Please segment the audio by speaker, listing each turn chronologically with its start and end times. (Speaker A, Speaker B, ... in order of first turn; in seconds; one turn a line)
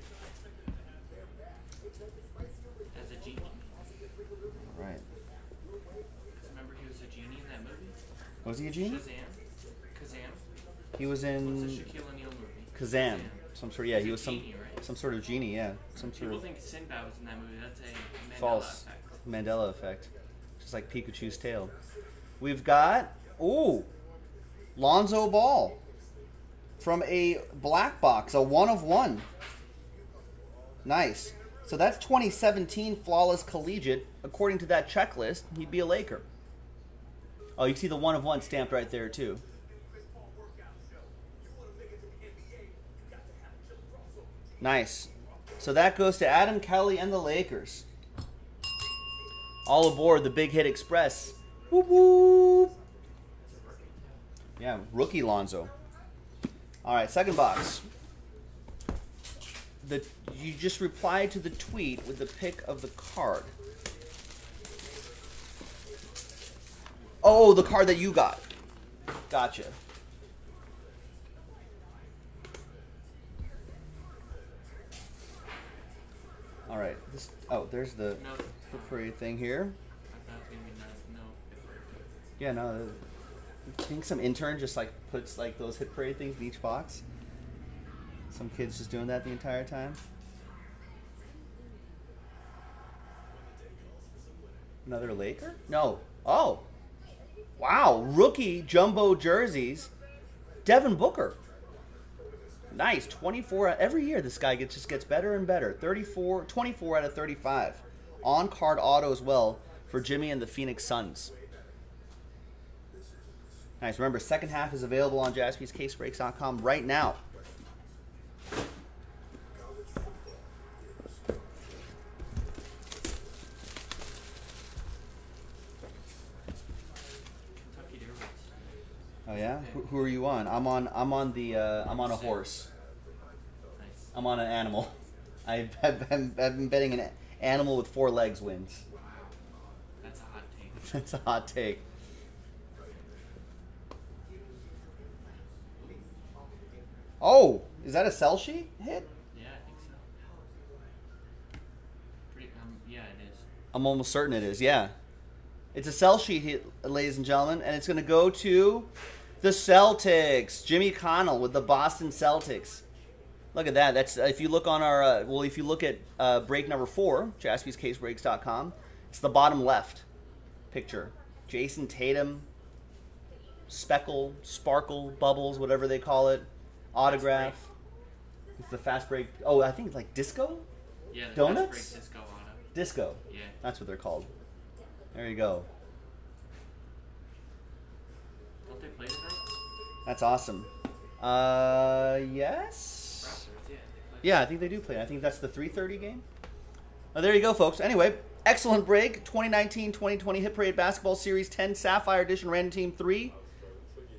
Speaker A: 2.9-3.7
Speaker B: 4.6-5.0
Speaker A: 6.4-8.0
Speaker B: 8.4-9.0
Speaker A: 8.7-9.4
Speaker A: 9.9-10.4
Speaker B: 11.0-11.9
Speaker A: 11.3-14.8
Speaker B: 12.8-16.5
Speaker A: 16.0-19.2
Speaker B: 18.4-21.7
Speaker B: 22.4-23.9
Speaker B: 24.8-25.8
Speaker B: 26.8-29.3
Speaker B: 30.9-36.2
Speaker B: 37.6-39.4
Speaker B: 44.6-47.9
Speaker B: 49.6-52.7
Speaker A: 53.4-54.2
Speaker B: 54.6-55.7
Speaker B: 56.8-57.9
Speaker B: 59.8-63.5
Speaker B: 67.2-68.4
Speaker B: 69.3-69.8
Speaker B: 76.7-79.8
Speaker A: 78.1-79.0
Speaker A: 80.1-82.1
Speaker B: 82.4-83.0
Speaker B: 83.7-87.0
Speaker B: 88.3-90.0
Speaker B: 94.9-96.7
Speaker B: 97.6-99.9
Speaker B: 100.7-101.4
Speaker B: 102.7-111.3
Speaker B: 113.8-117.2
Speaker A: 127.5-128.5
Speaker B: 129.3-132.7
Speaker A: 129.5-129.8
Speaker A: 131.9-132.5
Speaker A: 133.8-134.1
Speaker B: 134.1-134.9
Speaker B: 135.4-138.8
Speaker A: 140.0-141.0
Speaker B: 140.8-141.8
Speaker A: 145.8-146.0
Speaker B: 147.2-149.1
Speaker A: 149.3-150.0
Speaker A: 152.3-153.4
Speaker B: 153.7-154.9
Speaker B: 155.7-158.9
Speaker B: 159.4-162.8
Speaker B: 163.5-170.0
Speaker B: 170.7-172.5
Speaker B: 173.7-177.7
Speaker A: 177.0-177.6
Speaker B: 178.6-180.7
Speaker A: 181.1-182.6
Speaker B: 181.3-181.9
Speaker B: 182.7-184.3
Speaker A: 183.3-183.6
Speaker B: 185.1-185.7
Speaker A: 188.7-189.5
Speaker B: 190.1-190.7
Speaker B: 191.2-193.4
Speaker A: 193.2-194.7
Speaker B: 194.2-196.2
Speaker B: 197.1-203.3